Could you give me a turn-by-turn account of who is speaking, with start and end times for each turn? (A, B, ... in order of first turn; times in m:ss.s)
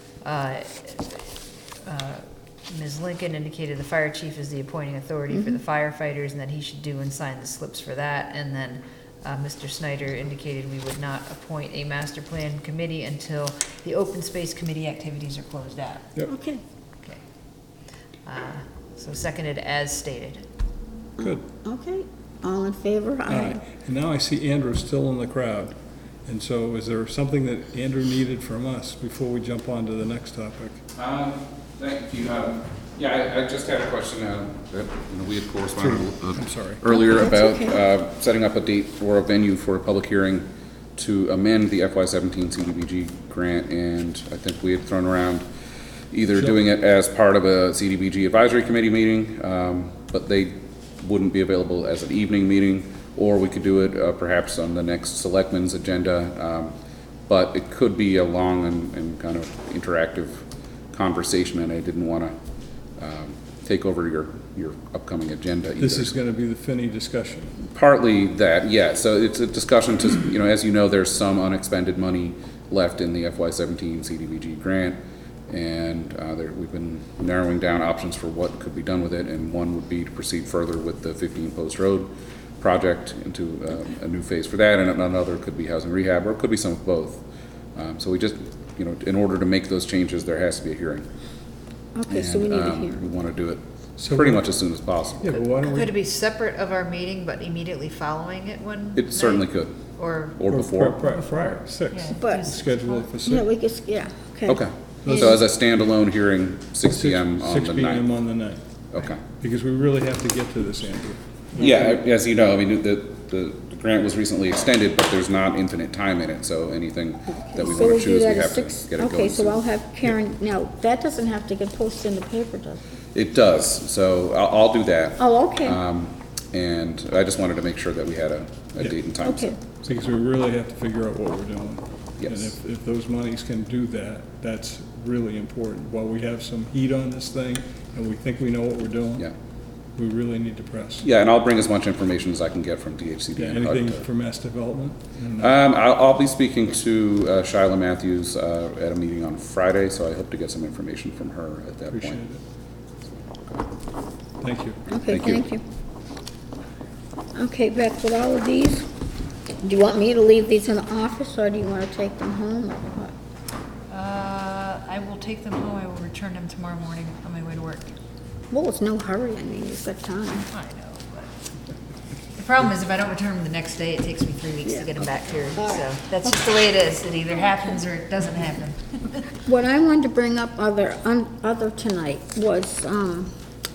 0:00.2-0:16.1 A
0:05.3-0:05.6 B
0:16.3-0:16.6 B
0:18.3-0:20.5 A
0:21.2-0:23.6 B
0:21.2-0:21.4 C
0:23.3-0:30.8 C
0:31.0-0:45.5 D
0:35.8-0:36.8 C
0:36.9-0:37.8 B
0:46.1-0:56.8 D
0:46.4-0:46.6 C
0:57.3-1:02.3 D
1:03.0-1:06.2 D
1:05.8-1:07.5 C
1:07.7-1:27.2 D
1:27.8-1:31.1 D
1:32.0-1:33.1 B
1:32.1-1:35.4 D
1:34.0-1:34.5 C
1:35.2-1:35.9 C
1:35.3-1:40.4 A
1:39.0-1:39.8 D
1:40.4-1:41.1 D
1:40.5-1:43.5 C
1:41.9-1:43.1 A
1:42.2-1:42.6 B
1:43.2-1:44.6 B
1:44.5-1:48.1 D
1:45.0-1:45.4 C
1:46.9-1:48.6 C
1:48.9-1:49.2 D
1:49.2-1:52.0 C
1:51.6-1:59.6 D
1:57.4-2:02.8 B
2:03.1-2:09.5 D
2:05.2-2:05.8 B
2:09.2-2:09.6 B
2:09.8-2:19.3 C
2:12.2-2:12.5 D
2:20.0-2:21.1 C
2:21.0-2:24.1 D
2:23.4-2:25.6 C
2:25.4-2:32.2 D
2:31.9-2:32.4 C
2:33.1-2:33.7 D
2:34.4-2:34.8 C
2:34.9-2:35.6 B
2:35.1-2:35.4 D
2:37.4-2:38.9 B
2:39.6-2:43.1 B
2:43.9-2:48.0 A
2:48.5-2:50.5 B
2:50.5-2:51.3 A
2:52.4-2:59.3 A
2:54.6-2:55.9 B
2:59.4-3:03.3 B